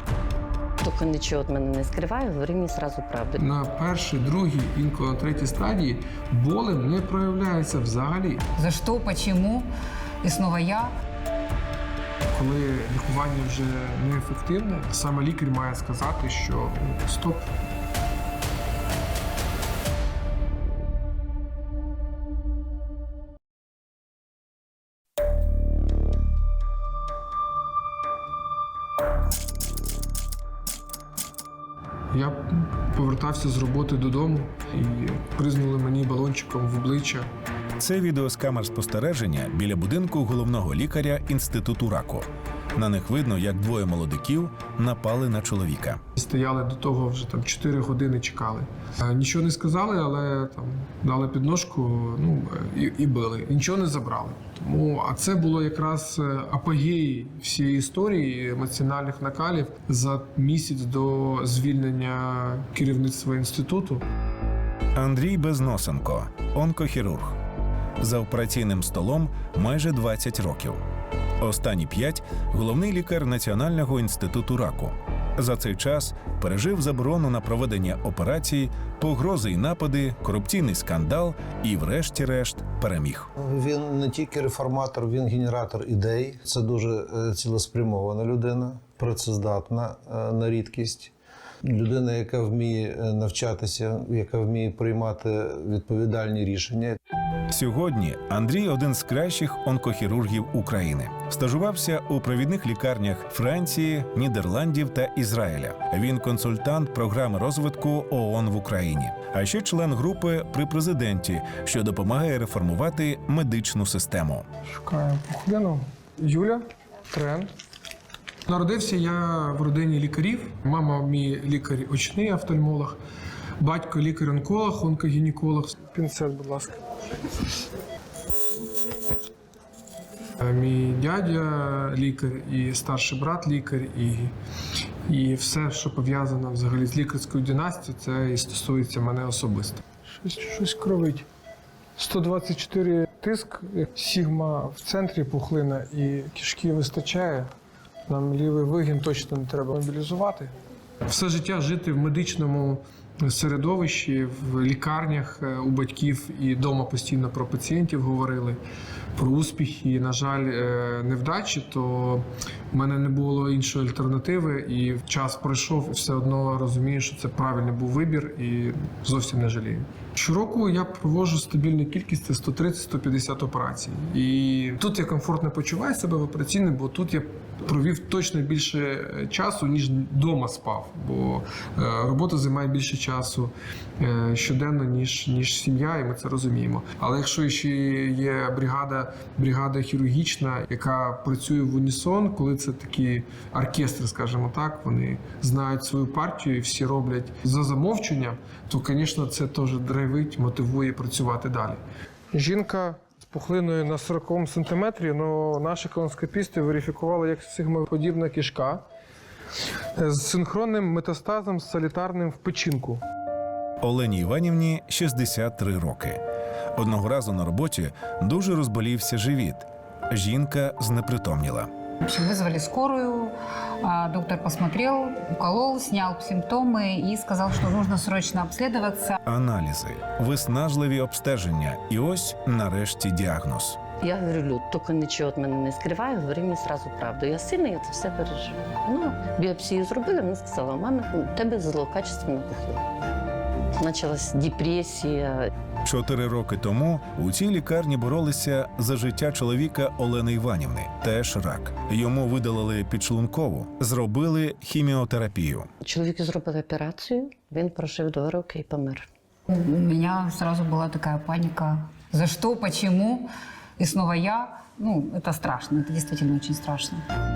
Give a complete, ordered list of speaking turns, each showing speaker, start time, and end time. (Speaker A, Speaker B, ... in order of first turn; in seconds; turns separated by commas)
Speaker A: 0.8-3.4, Speaker B: 3.4-8.4, Speaker C: 8.6-9.7, Speaker C: 10.2-10.9, Speaker B: 12.3-17.5, Speaker B: 32.1-37.3, Speaker D: 37.8-46.0, Speaker B: 46.2-64.0, Speaker D: 65.0-67.4, Speaker D: 68.0-70.8, Speaker D: 71.4-83.3, Speaker E: 83.4-91.1, Speaker E: 91.6-97.0, Speaker D: 97.5-114.4, Speaker B: 114.7-117.5, Speaker B: 118.5-123.0, Speaker B: 123.6-126.8, Speaker B: 130.4-134.3, Speaker B: 135.1-141.2, Speaker B: 142.0-147.5, Speaker B: 148.1-150.5, Speaker B: 151.1-158.6, Speaker B: 159.2-201.8, Speaker B: 202.3-208.8, Speaker B: 210.0-213.0, Speaker D: 213.8-216.2, Speaker D: 216.8-221.7, Speaker C: 222.0-229.2, Speaker D: 229.2-233.8, Speaker A: 234.0-242.8, Speaker A: 243.8-245.5, Speaker D: 245.8-255.7, Speaker A: 255.8-259.1, Speaker C: 259.5-267.0